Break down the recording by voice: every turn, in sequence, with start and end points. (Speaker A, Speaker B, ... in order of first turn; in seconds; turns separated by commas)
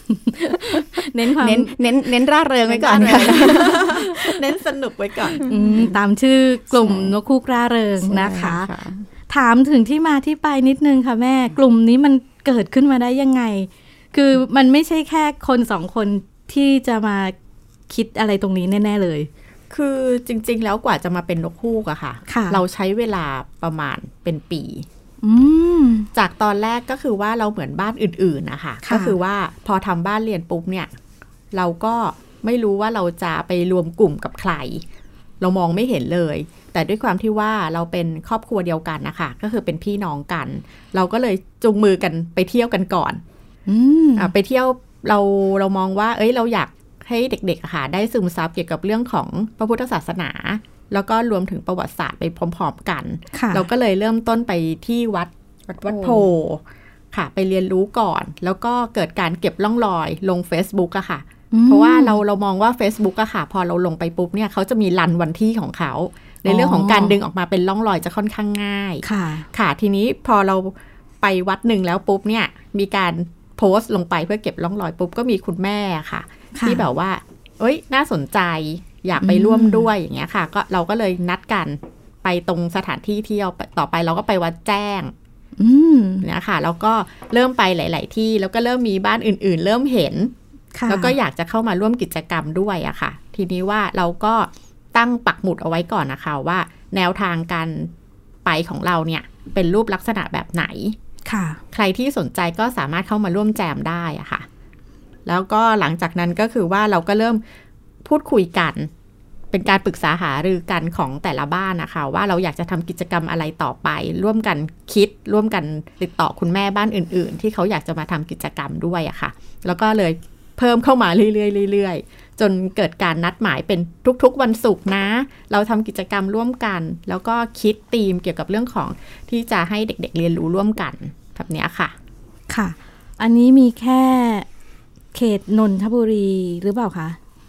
Speaker A: 0.1-1.8, Speaker B: 0.5-4.2, Speaker C: 2.7-5.5, Speaker A: 3.3-4.1, Speaker B: 5.4-6.0, Speaker A: 5.5-8.7, Speaker B: 6.7-7.2, Speaker B: 8.0-9.1, Speaker A: 9.3-17.3, Speaker A: 17.9-19.3, Speaker C: 19.7-24.9, Speaker A: 22.3-22.6, Speaker A: 25.2-26.1, Speaker C: 26.1-30.9, Speaker A: 28.8-29.2, Speaker C: 31.5-34.8, Speaker C: 35.4-43.2, Speaker A: 43.7-44.3, Speaker C: 44.2-85.1, Speaker A: 53.3-53.7, Speaker B: 55.7-56.3, Speaker A: 61.5-62.2, Speaker A: 66.5-67.2, Speaker A: 69.0-69.5, Speaker A: 76.6-76.9, Speaker A: 79.2-79.9, Speaker A: 85.6-86.3, Speaker C: 86.2-90.3, Speaker A: 90.8-91.2, Speaker C: 90.9-97.9, Speaker C: 98.5-101.0, Speaker A: 101.3-101.6, Speaker C: 101.7-104.5, Speaker C: 105.3-107.4, Speaker C: 108.0-108.9, Speaker C: 109.5-131.9, Speaker A: 132.5-134.5, Speaker A: 135.1-137.2